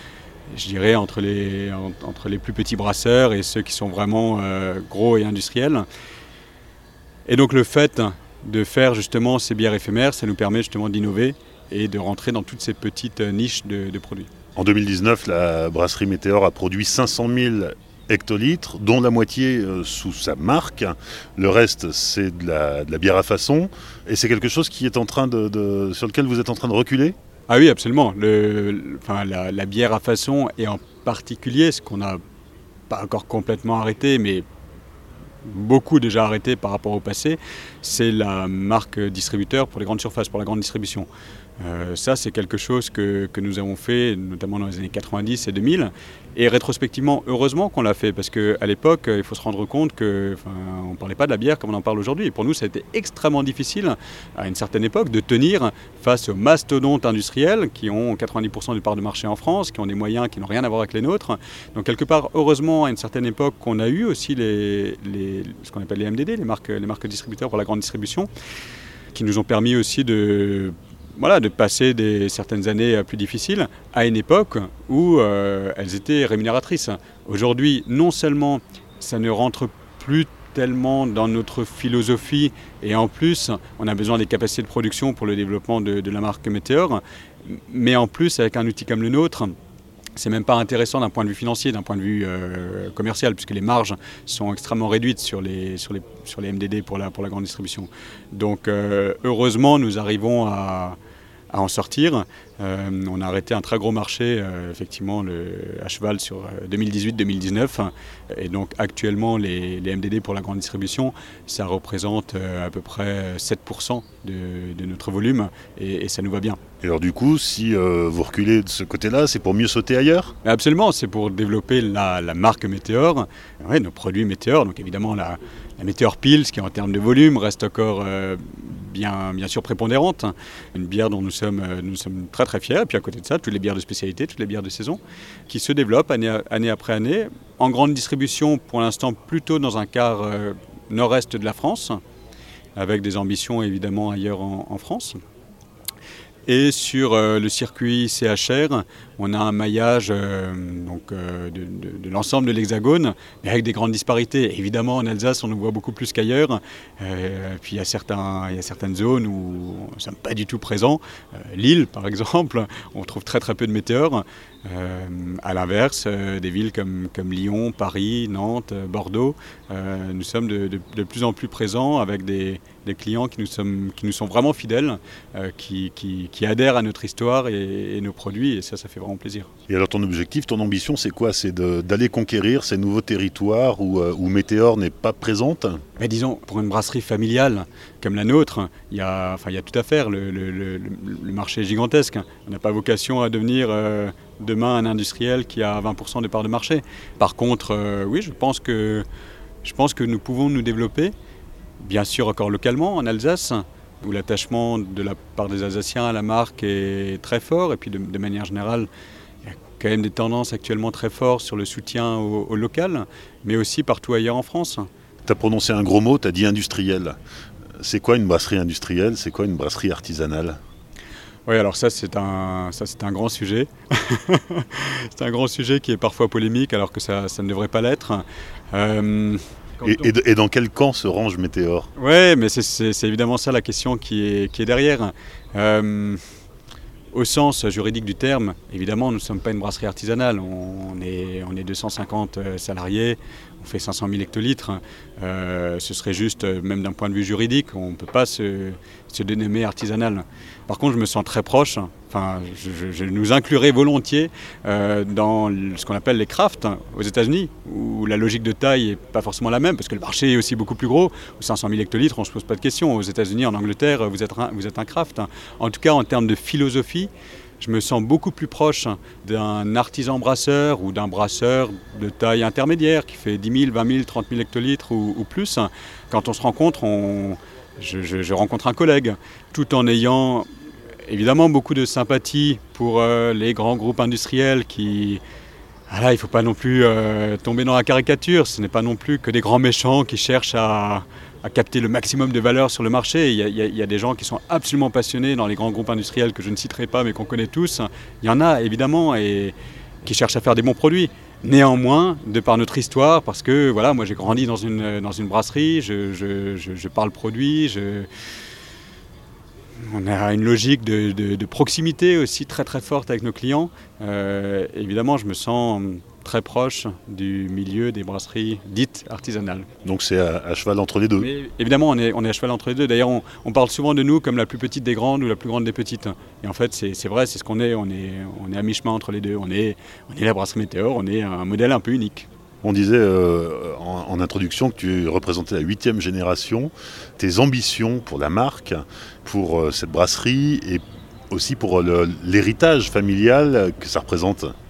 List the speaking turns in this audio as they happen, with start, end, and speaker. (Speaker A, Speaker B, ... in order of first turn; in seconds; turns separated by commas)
Speaker A: 0.5-5.9, Speaker A: 7.3-14.3, Speaker B: 14.6-27.1, Speaker A: 27.5-32.2, Speaker A: 32.9-34.5, Speaker A: 35.4-41.1, Speaker A: 41.6-68.3, Speaker A: 69.1-89.6, Speaker A: 90.2-101.0, Speaker A: 101.5-116.6, Speaker B: 116.8-120.3, Speaker A: 120.4-142.0, Speaker A: 142.8-145.2, Speaker A: 146.5-179.5, Speaker B: 179.7-185.8, Speaker A: 186.0-199.1, Speaker A: 199.6-201.1, Speaker A: 201.8-208.9, Speaker A: 209.4-214.9, Speaker B: 215.2-217.2, Speaker B: 217.8-220.6, Speaker A: 221.5-230.1, Speaker B: 229.8-231.9, Speaker A: 232.0-236.2, Speaker A: 237.1-280.5, Speaker A: 281.1-285.2, Speaker A: 285.9-308.1, Speaker A: 309.8-319.7, Speaker B: 319.8-321.3, Speaker A: 321.2-332.3, Speaker B: 332.6-344.6